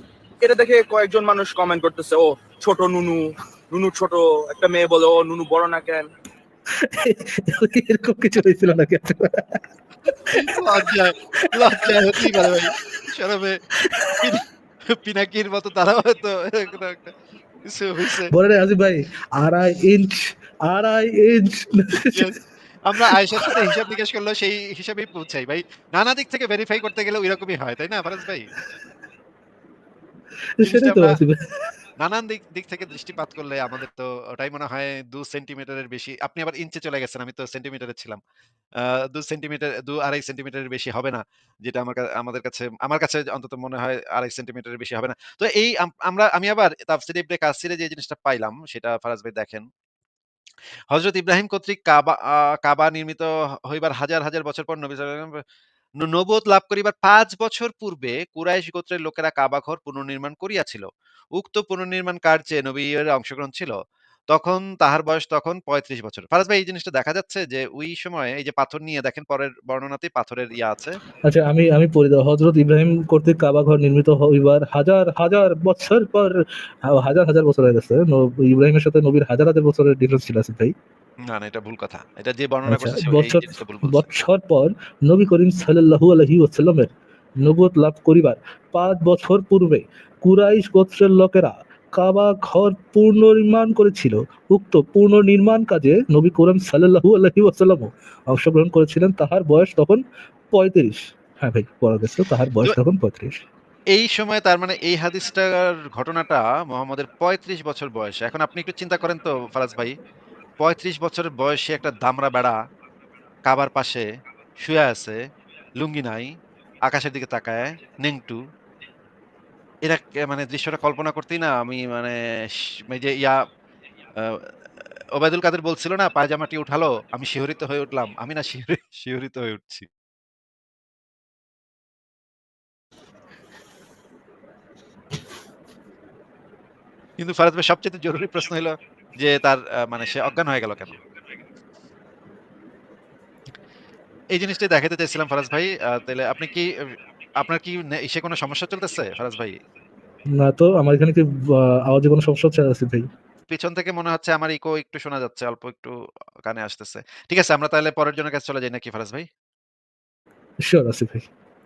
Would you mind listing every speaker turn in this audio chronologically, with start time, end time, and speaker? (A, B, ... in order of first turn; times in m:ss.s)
0:00.4-0:06.1 A
0:06.8-0:09.6 B
0:10.3-0:10.9 B
0:10.3-0:13.6 C
0:11.4-0:12.6 B
0:13.8-0:14.4 B
0:14.2-0:17.1 C
0:17.6-0:18.3 C
0:18.3-0:22.4 B
0:22.1-0:28.5 C
0:22.9-0:23.8 B
0:30.6-0:31.7 B
0:30.6-0:31.2 C
0:32.0-0:38.2 C
0:38.8-0:49.7 C
0:50.9-0:55.4 C
0:56.0-1:03.8 C
1:04.3-1:11.0 C
1:11.3-1:20.7 B
1:21.3-1:24.1 C
1:22.7-1:43.4 B
1:43.9-1:49.9 C
1:50.6-1:52.6 C
1:53.5-1:54.1 C
1:54.6-1:55.2 C
1:55.8-1:56.3 C
1:56.9-1:58.4 C
1:59.9-2:03.4 C
2:04.2-2:04.5 C
2:05.2-2:09.9 C
2:17.2-2:21.0 C
2:24.3-2:26.7 C
2:27.4-2:29.6 C
2:30.3-2:33.1 B
2:33.5-2:35.9 C
2:36.4-2:39.3 C
2:40.6-2:41.3 B